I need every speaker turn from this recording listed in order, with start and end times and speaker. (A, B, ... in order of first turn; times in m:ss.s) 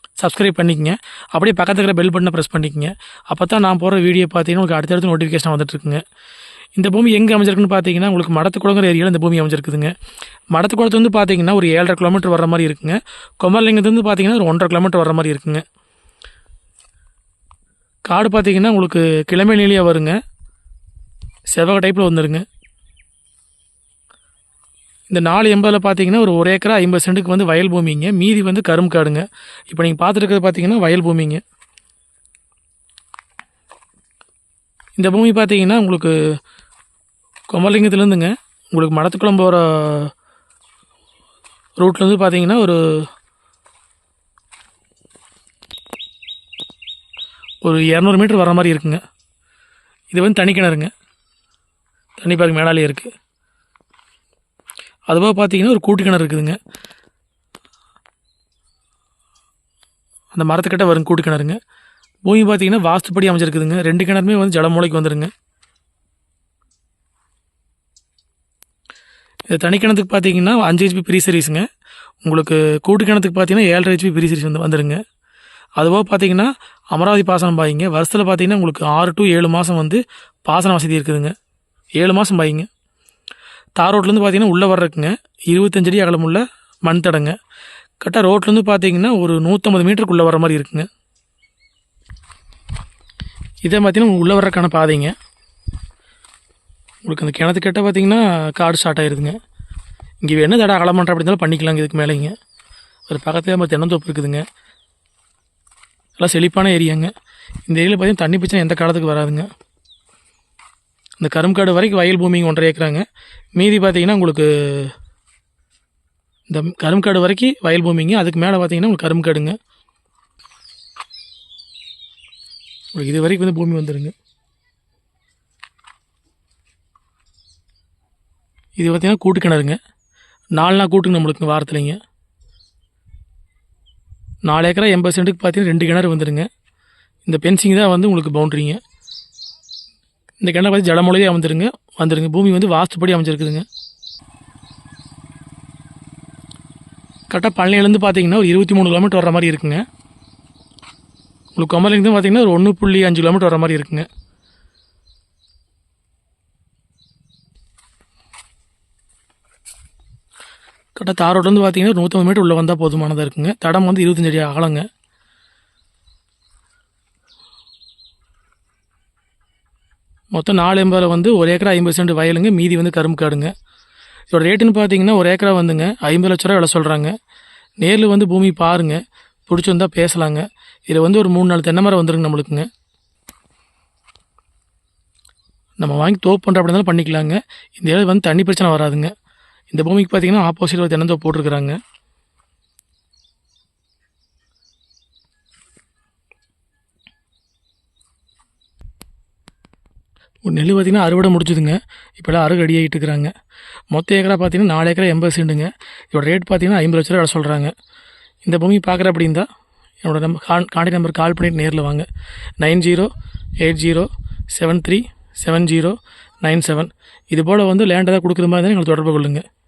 0:00.2-0:06.0 A
0:06.8-0:09.9 A
0:10.5-0:15.6 A
0:18.0-0:20.2 A
0:21.5-0:22.4 A
0:25.1-0:31.4 A
0:35.0-0:36.1 A
0:37.5-0:40.1 A
0:41.8-0:43.1 A
0:47.6-0:49.0 A
0:50.1-0:50.9 A
0:52.2-0:53.1 A
0:55.1-0:56.6 A
1:00.3-1:01.6 A
1:02.2-1:05.3 A
1:09.5-1:11.6 A
1:12.2-1:15.0 A
1:15.8-1:21.3 A
1:22.0-1:22.7 A
1:23.8-1:27.4 A
1:28.0-1:30.9 A
1:33.6-1:35.1 A
1:37.0-1:39.4 A
1:40.2-1:42.3 A
1:43.1-1:44.4 A
1:46.2-1:47.1 A
1:47.7-1:49.5 A
1:51.2-1:53.0 A
1:53.6-1:54.9 A
1:56.5-1:59.6 A
2:02.9-2:04.1 A
2:08.8-2:09.8 A
2:10.6-2:12.0 A
2:14.4-2:16.5 A
2:17.2-2:18.8 A
2:20.4-2:23.6 A
2:27.3-2:29.8 A
2:31.5-2:34.0 A
2:41.0-2:44.8 A
2:50.3-2:53.5 A
2:54.3-2:57.1 A
2:57.8-3:02.7 A
3:05.8-3:09.1 A
3:09.7-3:11.8 A
3:20.4-3:23.3 A
3:23.9-3:27.7 A
3:28.4-3:29.5 A
3:30.0-3:32.1 A
3:32.6-3:39.4 A